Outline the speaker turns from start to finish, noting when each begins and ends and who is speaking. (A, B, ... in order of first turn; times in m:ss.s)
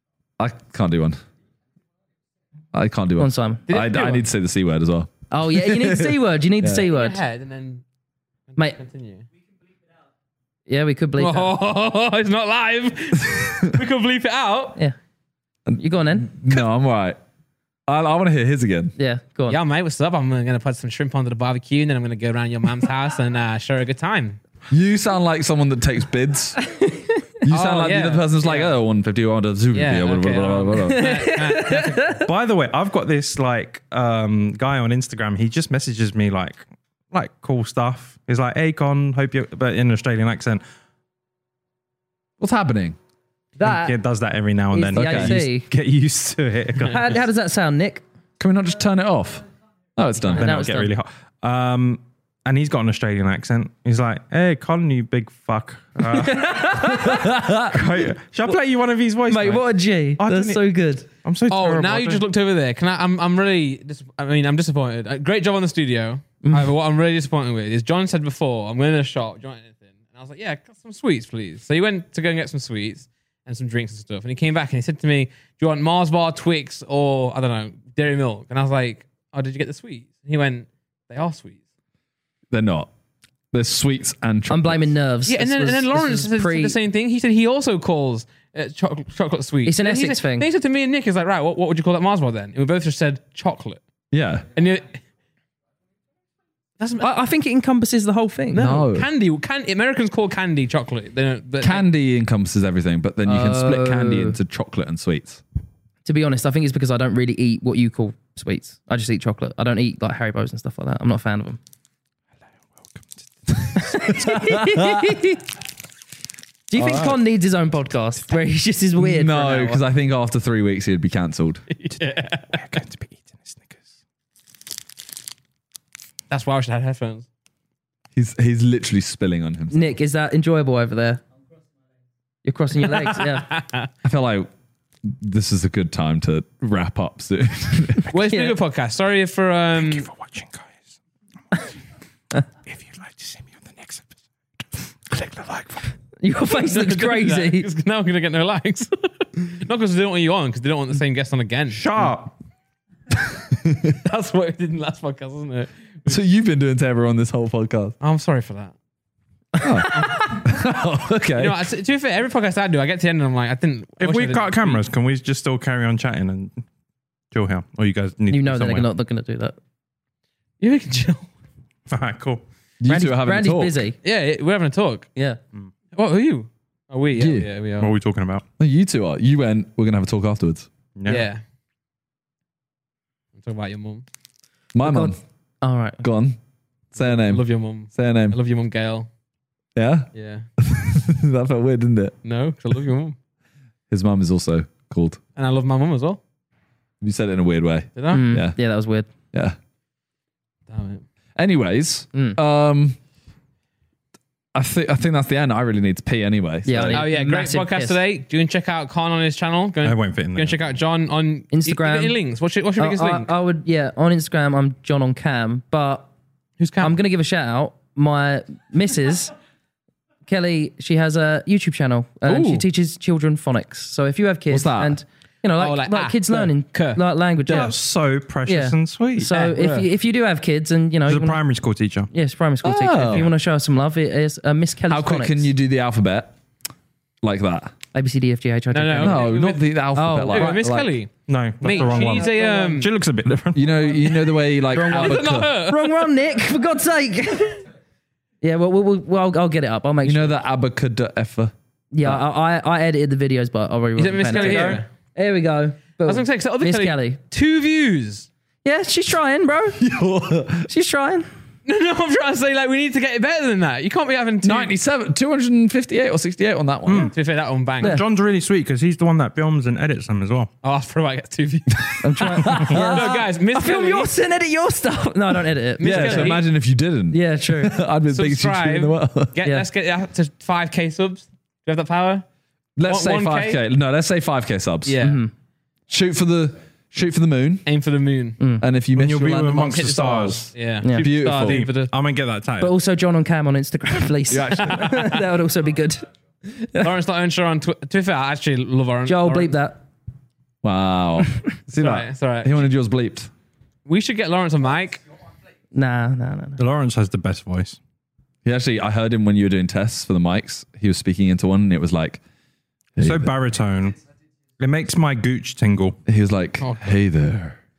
0:00.4-0:01.2 A
0:02.7-0:06.9 A
0:03.2-0:03.6 B
0:03.7-0:04.2 C
0:05.3-0:07.2 B
0:06.9-0:07.8 C
0:08.5-0:09.2 C
0:10.7-0:11.5 B
0:11.2-0:14.8 C
0:15.6-0:17.2 A
0:15.8-0:16.3 B
0:17.9-0:18.9 A
0:19.0-0:19.6 B
0:19.5-0:24.4 C
0:24.7-0:26.6 A
0:26.7-0:27.0 B
0:27.4-0:31.1 A
0:27.5-0:28.7 C
0:29.7-0:32.1 C
0:30.8-0:32.3 B
0:32.2-0:40.6 D
0:42.4-0:43.0 A
0:43.6-0:43.9 B
0:43.6-0:47.2 D
0:44.7-0:45.6 B
0:44.9-0:45.4 A
0:46.9-0:48.0 B
0:48.4-0:49.4 A
0:50.0-0:50.5 A
0:50.2-1:02.2 D
0:50.4-0:50.9 B
0:56.1-0:58.6 B
0:57.1-0:57.6 A
0:59.3-1:01.0 B
1:01.5-1:21.6 C
1:06.4-1:06.7 B
1:22.5-1:22.9 A
1:23.5-1:24.9 A
1:24.5-1:26.8 B
1:25.3-1:33.8 C
1:29.6-1:30.5 B
1:34.1-1:34.4 A
1:34.5-1:35.0 C
1:36.8-1:37.1 C
1:37.0-1:38.7 B
1:38.5-1:41.8 C
1:38.5-1:39.1 A
1:41.6-1:45.4 A
1:43.2-1:44.4 B
1:46.0-1:51.6 B
1:53.0-1:53.8 D
1:53.8-1:55.4 B
1:54.1-1:55.2 A
1:56.7-1:59.8 B
1:56.8-1:57.2 A
1:59.0-2:01.6 A
2:01.7-2:02.6 C
2:02.5-2:03.8 D
2:06.3-2:07.3 C
2:08.1-2:09.9 A
2:09.7-2:11.2 B
2:12.4-2:13.6 B
2:12.8-2:13.9 C
2:14.0-2:14.5 A
2:15.0-2:18.1 A
2:18.1-2:20.1 C
2:18.2-2:18.6 B
2:19.8-2:20.8 D
2:22.7-2:24.1 D
2:25.1-2:25.9 D
2:26.2-2:27.7 B
2:26.5-2:31.8 C
2:31.7-2:32.3 D
2:33.5-2:33.9 A
2:34.0-2:36.2 C
2:36.1-2:37.9 A
2:38.0-2:38.7 C
2:39.5-2:40.4 B
2:39.6-2:41.6 A
2:41.4-2:44.8 C
2:44.0-2:46.6 D
2:47.3-2:48.9 D
2:48.3-2:49.6 B
2:50.6-2:51.3 C
2:51.9-2:52.4 D
2:52.8-2:53.8 A
2:52.8-2:54.0 B
2:54.0-2:55.1 C
2:55.9-2:57.9 C
2:57.1-2:57.5 A
2:57.8-2:58.4 D
2:58.6-3:00.7 A
3:01.0-3:01.2 D
3:01.1-3:01.4 C
3:03.3-3:04.0 C
3:04.7-3:05.2 A
3:04.8-3:06.0 B
3:06.0-3:06.4 A
3:06.9-3:08.4 A
3:07.0-3:09.1 C
3:09.8-3:12.1 A
3:10.1-3:10.4 C
3:12.2-3:13.2 C
3:13.9-3:15.2 A
3:15.4-3:16.2 C
3:17.0-3:18.6 A
3:17.9-3:18.2 C
3:18.1-3:19.1 B
3:20.7-3:21.0 C
3:21.4-3:23.0 A
3:24.5-3:27.1 A
3:26.6-3:28.0 B
3:26.9-3:33.3 C
3:29.8-3:30.5 D
3:31.5-3:32.2 B
3:32.8-3:36.1 B
3:36.6-3:36.9 C
3:36.8-3:39.3 B
3:40.3-3:47.7 B
3:42.2-3:42.6 C
3:44.5-3:45.0 A
3:45.6-3:47.7 C
3:47.5-3:49.3 D
3:48.5-3:51.4 B
3:49.3-3:49.9 C
3:51.1-3:52.1 D
3:52.1-3:55.5 B
3:52.6-3:53.3 A
3:54.9-3:56.3 A
3:57.2-3:57.7 A
3:57.9-3:59.4 B
3:58.7-3:59.7 C
3:59.0-4:00.9 A
3:59.9-4:00.6 B
4:00.3-4:01.1 C
4:01.3-4:04.0 D
4:01.6-4:02.9 C
4:01.7-4:02.8 B
4:03.5-4:05.5 A
4:04.6-4:06.1 C
4:04.9-4:07.6 B
4:08.4-4:10.4 B
4:10.0-4:12.2 A
4:11.9-4:17.2 B
4:14.0-4:14.9 C
4:14.3-4:14.8 D
4:16.0-4:18.3 C
4:18.6-4:19.8 B
4:19.8-4:20.7 A
4:20.7-4:21.3 B
4:21.6-4:24.7 C
4:24.4-4:27.1 A
4:26.8-4:27.1 D
4:27.0-4:28.0 C
4:27.8-4:30.5 D
4:30.6-4:34.1 C
4:31.8-4:33.1 A
4:32.0-4:36.4 B
4:35.8-4:36.4 C
4:35.8-4:39.4 A
4:37.1-4:37.8 B
4:38.1-4:42.2 C
4:42.8-4:45.0 A
4:42.8-4:43.6 C
4:44.8-4:45.2 C
4:45.0-4:45.3 B
4:45.9-4:47.6 A
4:47.6-4:48.4 C
4:48.4-4:48.6 B
4:48.6-4:51.6 A
4:48.9-4:50.5 D
4:50.2-4:51.9 C
4:51.2-4:52.7 D
4:52.6-4:56.9 B
4:54.3-4:55.2 A
4:56.8-4:59.6 C
4:59.0-4:59.8 B
5:00.6-5:03.3 A
5:01.8-5:02.6 C
5:03.8-5:05.0 C
5:05.7-5:06.6 B
5:06.6-5:07.8 D
5:08.4-5:12.2 A
5:13.0-5:13.3 A
5:13.0-5:14.0 D
5:14.6-5:16.0 D
5:16.1-5:17.6 A